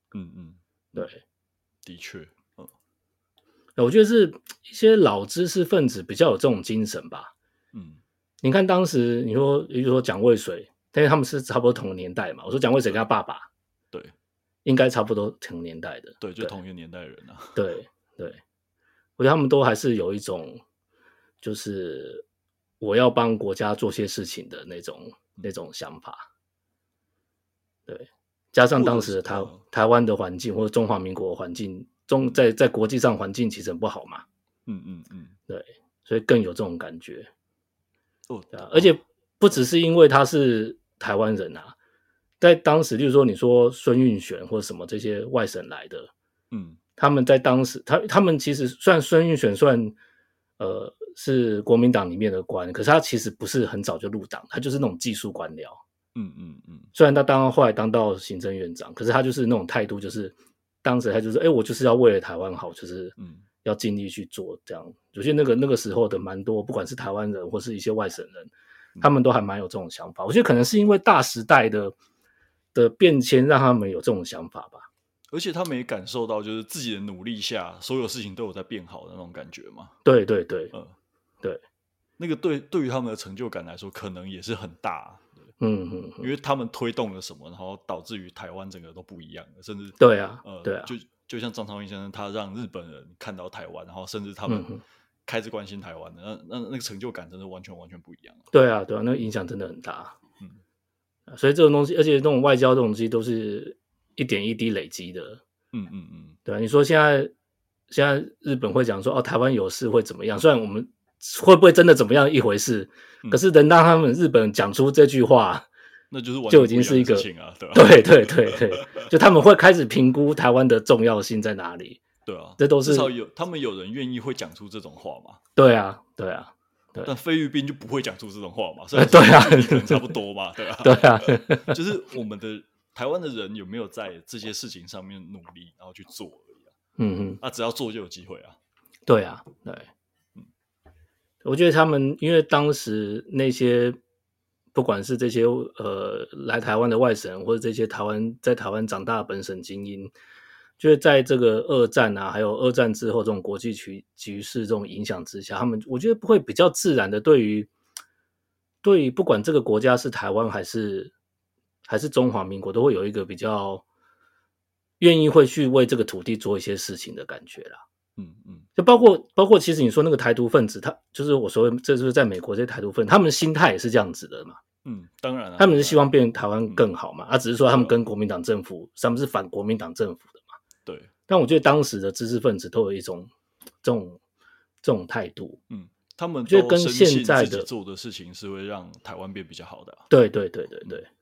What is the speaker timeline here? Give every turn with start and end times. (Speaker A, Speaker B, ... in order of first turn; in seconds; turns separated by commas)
Speaker A: 0.1-0.6, Speaker B: 0.9-1.2, Speaker A: 1.9-2.7, Speaker B: 3.8-7.3, Speaker A: 7.7-8.0, Speaker B: 8.4-13.5, Speaker B: 14.7-16.5, Speaker A: 16.2-17.6, Speaker B: 17.6-18.4, Speaker B: 19.2-20.6, Speaker B: 21.4-22.2, Speaker B: 22.8-26.2, Speaker B: 27.9-34.2, Speaker A: 28.7-29.6, Speaker A: 34.7-35.4, Speaker B: 35.5-37.3, Speaker A: 38.3-39.0, Speaker B: 38.5-41.8, Speaker B: 42.4-46.1, Speaker A: 46.5-46.8, Speaker B: 47.0-50.0, Speaker B: 50.6-55.8, Speaker A: 56.1-56.9, Speaker B: 57.0-72.0, Speaker A: 63.2-63.5, Speaker B: 72.7-74.9, Speaker A: 75.3-80.0, Speaker B: 80.0-80.7, Speaker A: 82.2-85.5, Speaker B: 85.6-86.3, Speaker A: 86.2-94.7, Speaker B: 90.0-90.9, Speaker B: 94.5-94.8, Speaker A: 95.3-98.5, Speaker B: 98.5-100.2, Speaker B: 101.3-105.4, Speaker A: 105.7-106.4, Speaker B: 106.5-107.3, Speaker B: 107.9-115.7, Speaker A: 116.1-119.1, Speaker B: 116.5-122.0, Speaker A: 122.2-125.4, Speaker B: 122.6-123.1, Speaker B: 125.6-127.1, Speaker A: 127.0-136.7, Speaker B: 128.9-130.2, Speaker B: 130.8-131.8, Speaker B: 137.0-137.4, Speaker A: 137.4-138.6, Speaker B: 139.1-139.9, Speaker B: 141.4-144.0, Speaker B: 144.7-150.1, Speaker B: 150.8-157.7, Speaker B: 158.8-161.1, Speaker B: 161.9-163.8, Speaker B: 165.0-167.8, Speaker A: 168.2-168.7, Speaker B: 168.8-174.6, Speaker A: 174.8-176.1, Speaker B: 175.6-180.5, Speaker A: 180.9-181.1, Speaker B: 181.3-183.3, Speaker B: 183.8-184.2, Speaker B: 184.8-185.6, Speaker A: 185.7-190.1, Speaker B: 186.5-187.7, Speaker B: 190.1-191.1